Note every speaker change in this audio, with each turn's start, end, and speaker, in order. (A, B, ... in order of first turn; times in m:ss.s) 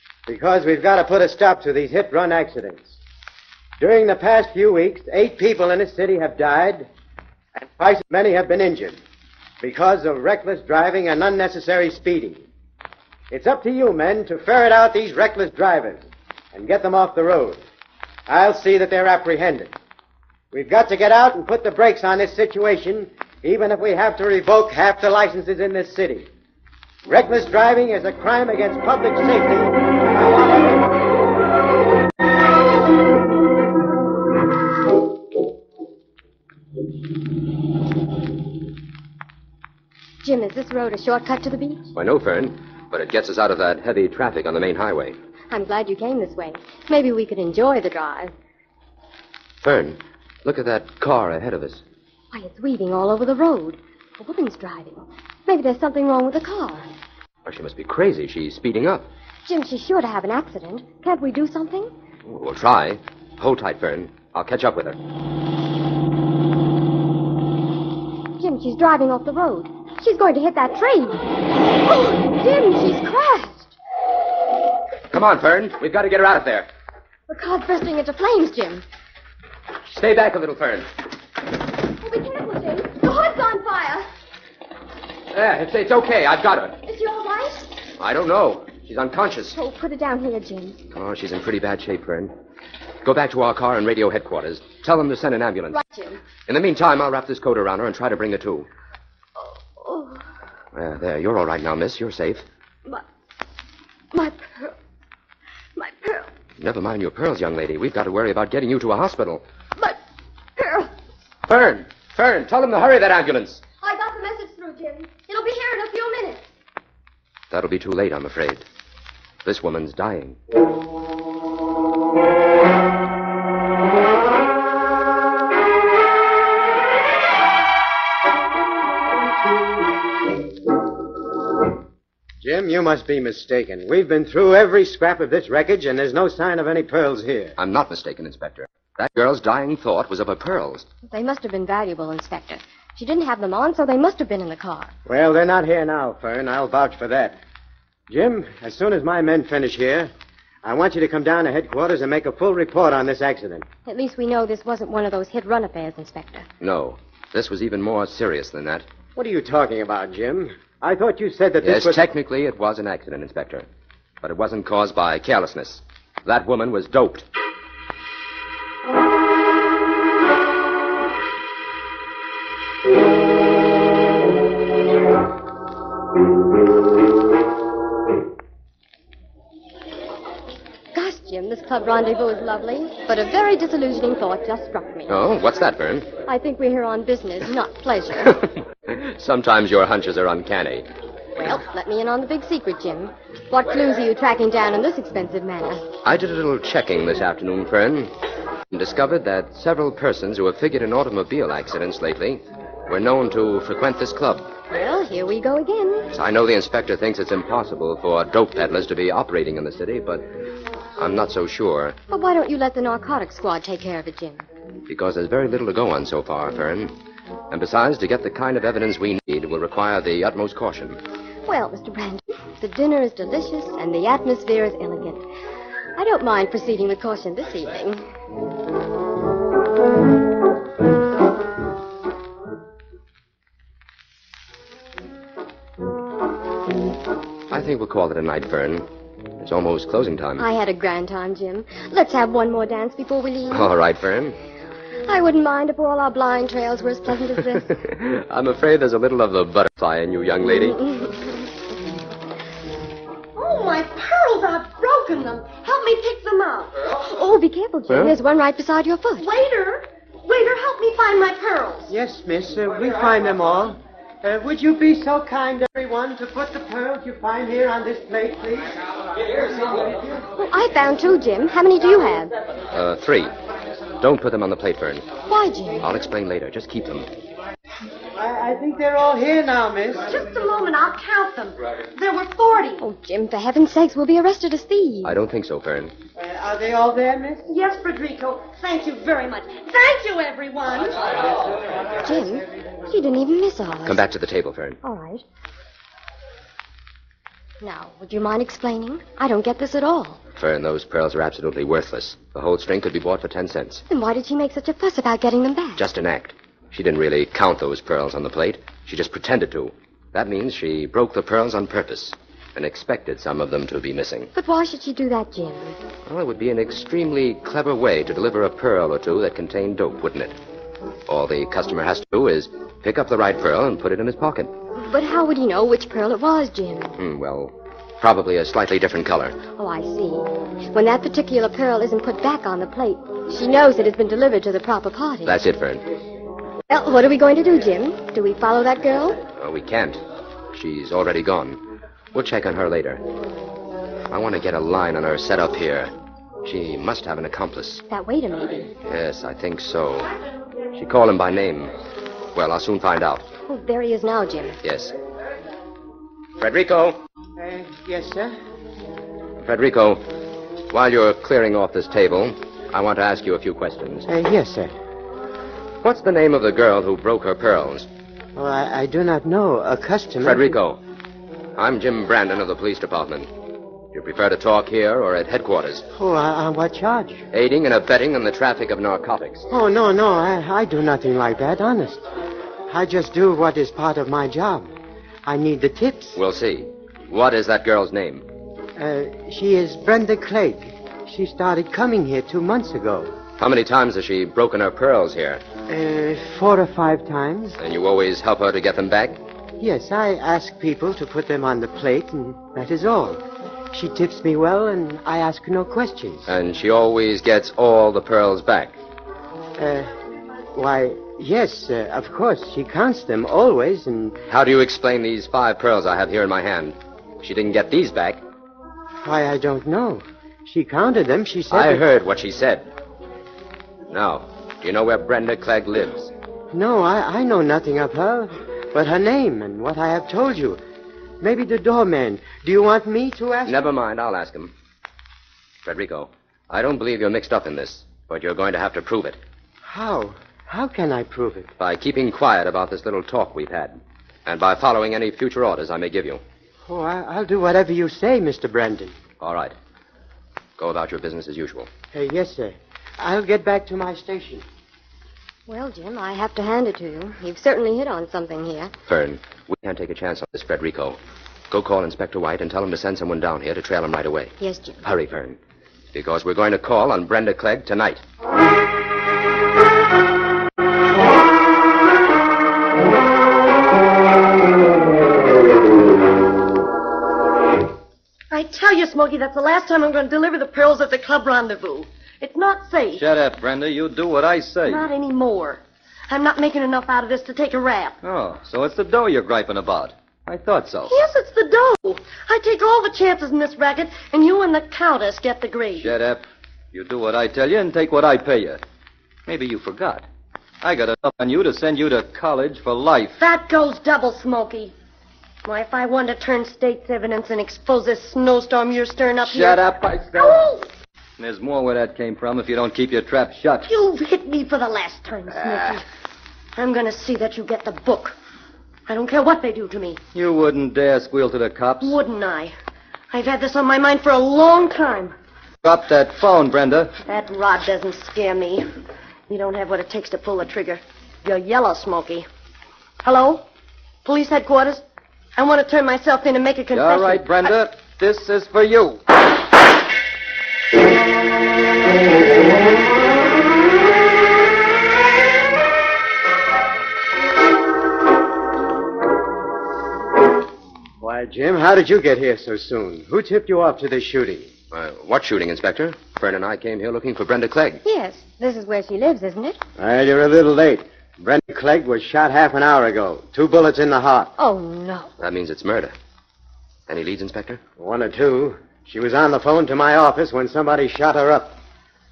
0:00.3-0:03.0 A
0:03.8-0:06.9 A
0:07.6-0:09.0 A
0:09.6-0:12.4 A
0:13.3-0:17.6 A
0:18.3-0:19.7 A
0:20.5-0:26.3 A
0:27.0-0:30.9 A
0:40.2-0:41.9 B
0:42.0-0:45.2 C
0:45.5-0:48.3 B
0:49.6-0:51.8 C
0:52.3-0:56.9 B
0:57.4-0:59.1 C
0:59.5-1:01.9 B
1:02.3-1:05.0 C
1:08.4-1:11.2 B
1:11.9-1:13.7 B
1:15.1-1:16.7 C
1:17.3-1:18.8 B
1:19.9-1:20.9 C
1:22.0-1:24.1 B
1:25.3-1:26.8 C
1:26.8-1:27.7 B
1:28.0-1:29.6 C
1:29.5-1:30.8 B
1:30.9-1:32.3 C
1:33.0-1:35.8 C
1:35.7-1:36.2 B
1:36.5-1:38.7 C
1:39.8-1:40.2 B
1:40.7-1:42.4 C
1:44.1-1:44.7 B
1:45.8-1:46.3 B
1:46.6-1:49.4 C
1:50.6-1:50.9 B
1:51.5-1:53.6 C
1:53.8-1:56.4 B
1:57.5-1:58.6 C
1:59.4-2:00.4 C
2:12.4-2:17.6 A
2:17.6-2:20.9 C
2:21.1-2:24.9 B
2:25.1-2:27.4 A
2:28.1-2:30.1 A
2:30.6-2:33.7 A
2:33.9-2:36.5 B
2:36.6-2:38.9 C
2:39.2-2:42.1 A
2:41.6-2:43.7 C
2:44.2-2:47.3 C
3:00.9-3:05.2 B
3:05.1-3:06.1 C
3:06.3-3:08.4 B
3:08.8-3:10.9 C
3:11.5-3:15.9 B
3:16.0-3:18.1 C
3:18.7-3:24.5 C
3:24.7-3:26.1 B
3:26.1-3:30.3 C
3:31.0-3:32.0 C
3:32.1-3:34.5 B
3:34.9-3:37.0 C
3:37.5-3:41.0 C
3:41.5-3:45.2 B
3:46.0-3:48.0 B
3:57.5-3:58.9 C
3:59.4-4:00.5 C
4:00.4-4:03.7 B
4:03.5-4:04.4 C
4:05.1-4:07.7 B
4:07.6-4:10.8 C
4:10.7-4:11.3 B
4:13.4-4:16.9 D
4:17.0-4:19.3 B
4:17.9-4:18.2 C
4:19.2-4:21.9 D
4:21.9-4:30.2 A
4:30.3-4:32.3 B
4:32.7-4:33.3 C
4:34.0-4:35.1 C
4:35.3-4:35.8 B
4:35.8-4:37.1 C
4:38.2-4:40.2 A
4:40.1-4:42.8 D
4:42.8-4:45.2 B
4:45.0-4:46.0 C
4:46.2-4:47.5 A
4:47.5-4:51.0 D
4:52.0-4:54.0 B
4:53.9-4:54.8 C
4:54.8-4:55.2 B
4:57.6-5:00.2 B
5:00.4-5:03.8 C
5:03.9-5:05.8 B
5:05.8-5:14.3 C
5:14.4-5:15.8 B
5:16.1-5:20.4 C
5:21.1-5:24.5 C
5:24.8-5:27.0 B
5:27.0-5:29.4 C
5:29.6-5:35.4 B
5:35.2-5:35.9 C
5:36.7-5:39.2 B
5:39.4-5:43.0 C
5:44.1-5:45.9 C
5:46.4-5:47.8 C
5:47.9-5:48.7 B
5:48.9-5:50.1 C
5:50.8-5:51.7 C
5:52.3-5:53.3 C
5:53.5-5:54.6 B
5:54.6-5:55.0 C
5:56.4-5:57.0 C
5:57.4-5:58.4 A
5:59.4-6:00.1 C
6:00.7-6:04.1 C
6:04.1-6:04.7 A
6:05.8-6:07.9 C
6:08.4-6:10.6 A
6:10.2-6:10.8 C
6:11.6-6:13.3 C
6:13.9-6:15.9 C
6:15.9-6:17.3 A
6:17.3-6:19.5 C
6:19.5-6:22.1 A
6:22.7-6:24.7 A
6:25.3-6:26.2 A
6:26.2-6:28.3 C
6:28.8-6:33.1 A
6:33.4-6:35.4 C
6:35.7-6:37.6 A
6:37.6-6:39.2 C
6:39.6-6:46.3 A
6:46.3-6:48.8 C
6:49.6-6:50.0 A
6:50.5-6:54.2 A
6:54.3-6:58.2 C
6:59.0-7:01.8 A
7:01.5-7:02.7 C
7:03.9-7:06.1 C
7:06.5-7:10.6 A
7:11.2-7:13.7 A
7:13.5-7:14.5 C
7:15.6-7:19.2 C
7:19.6-7:21.5 A
7:21.6-7:26.2 C
7:26.7-7:29.0 A
7:29.2-7:29.6 C
7:30.6-7:31.7 C
7:31.9-7:34.4 A
7:35.5-7:38.7 B
7:38.9-7:41.0 C
7:41.5-7:45.4 C
7:44.4-7:44.8 B
7:45.9-7:48.0 C
7:58.3-8:03.0 D
8:03.0-8:04.9 E
8:04.6-8:08.0 D
8:08.0-8:11.0 E
8:10.9-8:15.9 D
8:15.8-8:18.6 E
8:19.3-8:20.0 E
8:20.6-8:23.2 E
8:23.2-8:24.7 D
8:25.4-8:29.6 D
8:29.3-8:30.5 E
8:30.1-8:30.7 D
8:31.2-8:33.7 E
8:33.6-8:35.8 D
8:36.6-8:38.2 D
8:38.9-8:40.0 D
8:40.2-8:42.0 E
8:41.8-8:42.6 D
8:43.1-8:45.2 D
8:45.6-8:46.9 E
8:47.1-8:48.7 D
8:49.3-8:52.3 D
8:53.0-8:53.5 D
8:54.0-8:54.8 D
8:55.4-8:57.5 D
8:56.7-8:59.0 E
9:11.0-9:14.5 A
9:14.7-9:17.8 C
9:17.8-9:19.6 B
9:19.8-9:24.3 A
9:24.4-9:25.1 B
9:25.2-9:25.9 C
9:26.9-9:27.6 C
9:27.8-9:31.6 A